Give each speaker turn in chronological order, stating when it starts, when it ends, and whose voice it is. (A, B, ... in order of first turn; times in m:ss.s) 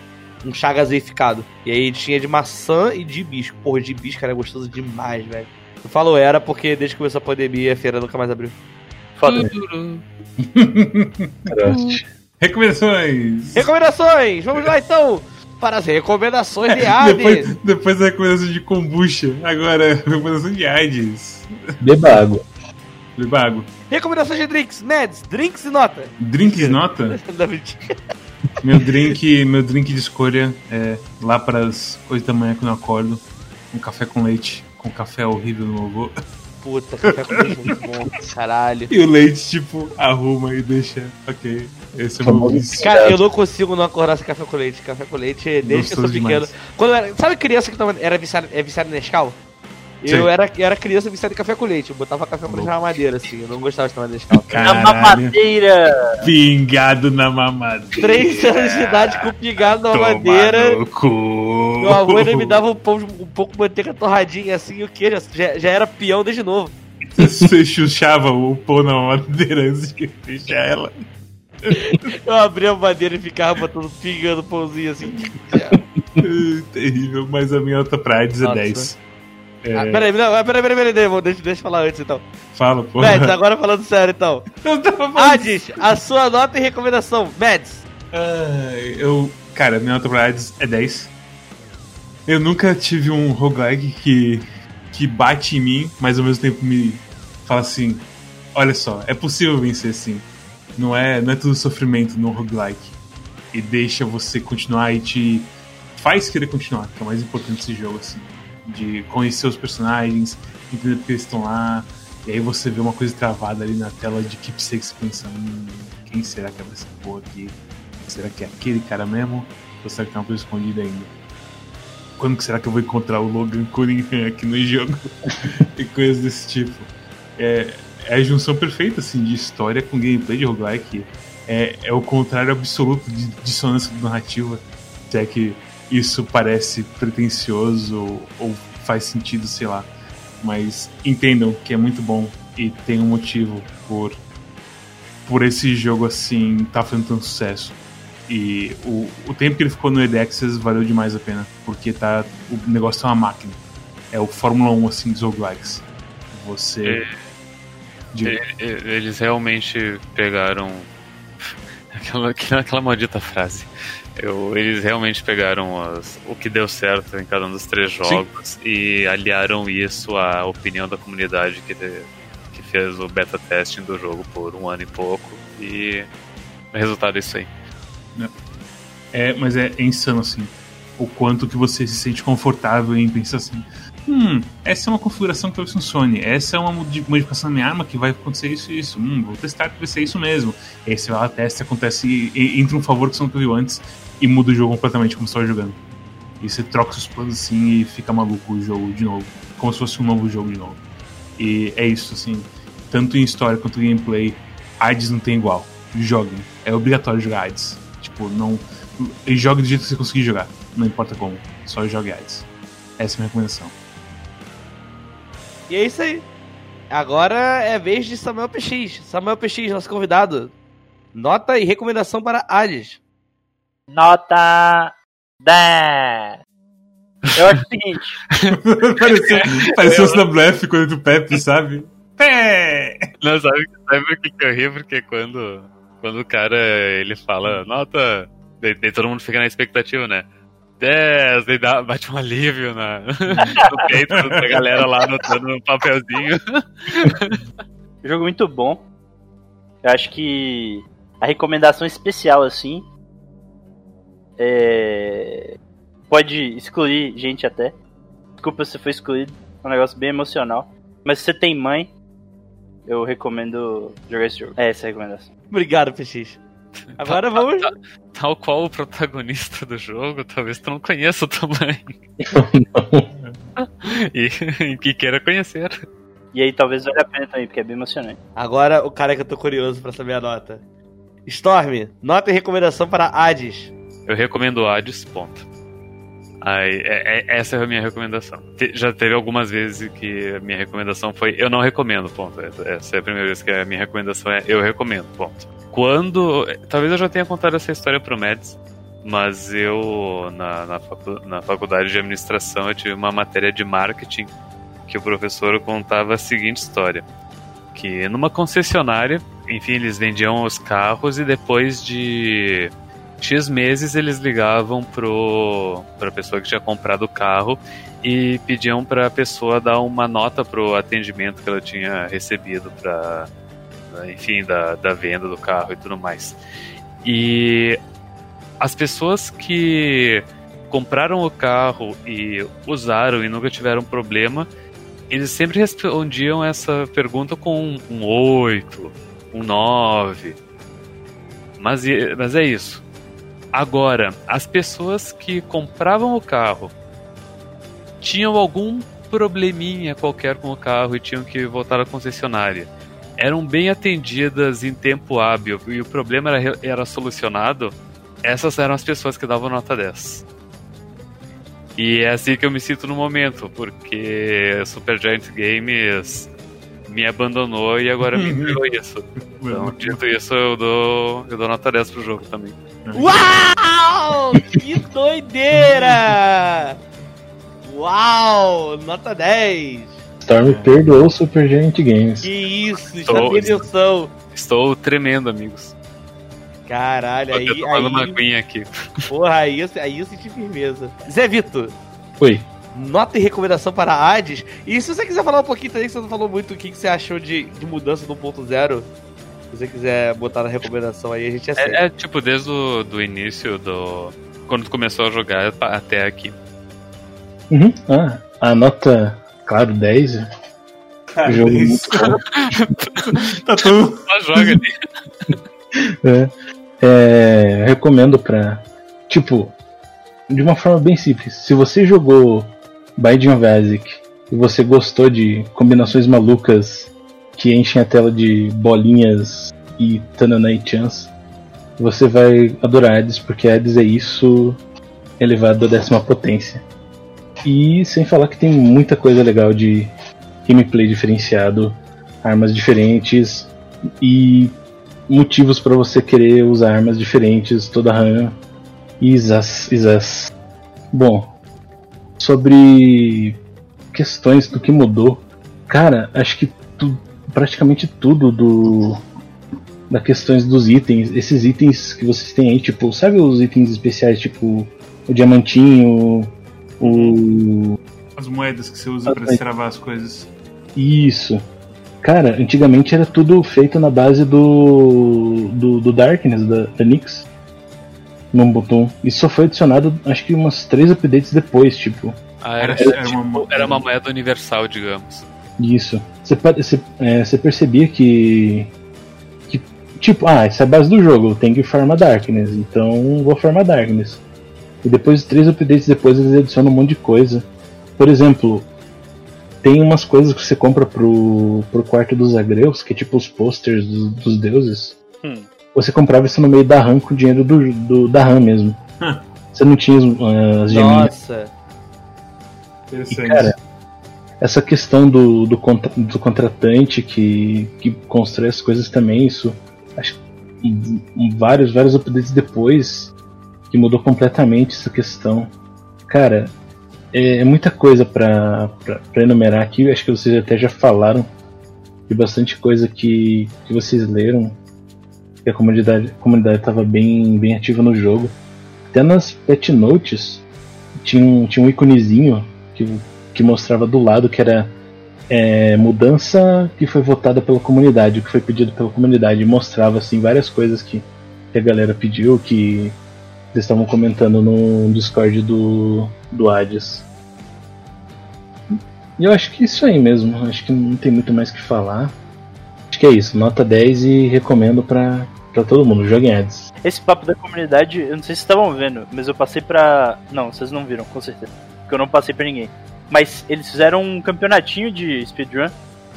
0:00.4-0:08.6 A
0:09.2-0:09.5 B
0:09.2-0:10.0 C
0:10.4-0:11.6 D
0:11.5-0:12.0 E
0:11.7-0:12.0 C
0:12.4-0:13.7 D
0:13.6-0:17.5 A
0:16.7-0:22.2 D
0:21.8-0:22.4 E
0:23.2-0:23.7 D
0:23.9-0:28.0 A
0:26.2-0:27.2 D
0:28.6-0:36.1 D
0:36.6-0:38.9 A
0:37.0-0:37.8 D
0:38.9-0:42.9 D
0:42.2-0:43.2 E
0:42.8-0:49.4 A
0:45.6-0:46.6 D
0:50.0-0:54.7 A
0:50.1-0:50.3 D
0:52.5-0:53.0 D
0:54.3-0:55.4 D
0:54.6-0:56.3 B
0:56.2-0:58.6 D
0:57.9-1:00.8 A
0:58.2-0:59.1 C
0:59.7-1:02.6 D
1:01.8-1:06.8 A
1:07.1-1:11.0 D
1:07.2-1:07.5 E
1:11.6-1:12.0 D
1:11.8-1:15.8 A
1:16.2-1:19.0 D
1:18.4-1:18.9 A
1:19.6-1:20.1 D
1:19.8-1:22.3 A
1:22.5-1:23.4 D
1:23.0-1:24.5 A
1:24.5-1:25.8 D
1:25.2-1:27.8 A
1:28.1-1:31.1 D
1:32.3-1:42.9 D
1:43.5-2:01.1 D
2:02.2-2:19.9 D
2:20.4-2:24.2 D
2:25.2-2:33.6 D
2:34.1-2:37.0 D
2:36.8-2:37.2 C
2:38.1-2:38.4 D
2:38.2-2:40.9 C
2:41.4-2:56.1 C
2:56.7-2:57.5 C
2:59.1-3:15.8 D
3:16.4-3:20.8 D
3:21.4-3:32.4 D
3:33.0-3:33.7 D
3:35.7-3:36.3 A
3:36.9-3:40.5 A
3:41.1-3:43.0 A
3:43.9-3:46.4 B
3:47.4-3:48.2 B
3:48.3-3:50.2 C
3:48.5-3:53.1 D
3:53.2-4:00.3 C
4:00.8-4:07.4 C
4:03.3-4:04.8 D
4:08.0-4:08.8 B
4:09.8-4:12.9 B
4:14.4-4:15.5 B
4:16.1-4:17.7 B
4:18.4-4:21.9 B
4:22.9-4:25.3 B
4:25.5-4:26.4 A
4:27.0-4:27.7 A
4:27.0-4:32.0 C
4:32.2-4:33.1 E
4:33.6-4:35.7 C
4:36.3-4:38.2 B
4:38.4-4:40.6 A
4:41.3-4:43.7 A
4:44.1-4:45.4 C
4:46.4-5:04.3 C
5:04.8-5:07.1 C
5:07.7-5:23.3 C
5:23.9-5:26.4 C
5:27.0-5:27.8 C
5:28.6-5:34.5 C
5:35.1-5:40.4 C
5:41.6-5:42.8 C
5:43.5-5:46.7 C
5:48.0-6:00.2 C
6:01.8-6:06.3 C
6:06.9-6:12.6 C
6:08.1-6:08.6 D
6:09.3-6:10.0 D
6:12.8-6:13.3 D
6:13.0-6:16.8 A
6:15.7-6:16.0 D
6:17.6-6:20.0 A
6:20.2-6:22.3 E
6:20.4-6:20.8 D
6:22.2-6:24.1 A
6:22.9-6:23.7 C
6:24.3-6:25.7 C
6:26.7-6:28.2 A
6:27.3-6:29.1 C
6:29.1-6:31.7 A
6:32.7-6:38.9 A
6:39.5-6:41.8 A
6:41.6-6:46.4 C
6:47.5-6:50.2 E
6:51.1-6:52.2 D
6:51.3-6:52.2 E
6:52.0-6:55.4 C
6:53.4-6:54.0 D
6:56.0-6:59.6 E
7:00.3-7:11.1 E
7:11.8-7:14.6 E
7:15.2-7:16.6 E
7:17.4-7:19.9 E
7:20.4-7:24.6 E
7:25.1-7:28.4 E
7:29.0-7:30.3 E
7:30.9-7:31.3 E
7:32.2-7:33.4 E
7:33.9-7:39.0 E
7:39.9-7:46.3 E
7:46.8-7:47.2 D
7:46.8-7:47.8 E
7:48.2-7:50.3 D
7:49.1-7:49.4 E
7:50.7-7:51.4 E
7:52.0-7:57.3 E
7:58.3-8:02.2 E
8:02.4-8:05.2 C
8:02.6-8:03.8 D
8:05.6-8:08.7 E
8:09.5-8:14.2 E
8:14.8-8:17.5 E
8:18.0-8:18.7 E
8:19.6-8:25.0 E
8:25.7-8:28.8 E
8:29.5-8:31.1 E
8:30.7-8:31.5 A
8:32.9-8:33.6 D
8:33.1-8:33.6 E
8:34.4-8:43.1 E
8:43.7-8:45.5 E
8:46.1-8:46.5 E
8:47.1-8:51.3 E
8:52.1-8:54.6 E
8:55.4-8:58.4 E
8:58.9-9:00.4 E
9:01.0-9:04.7 E
9:05.3-9:13.0 E
9:13.5-9:17.1 E
9:18.7-9:22.1 E
9:22.9-9:26.7 E
9:26.8-9:35.7 B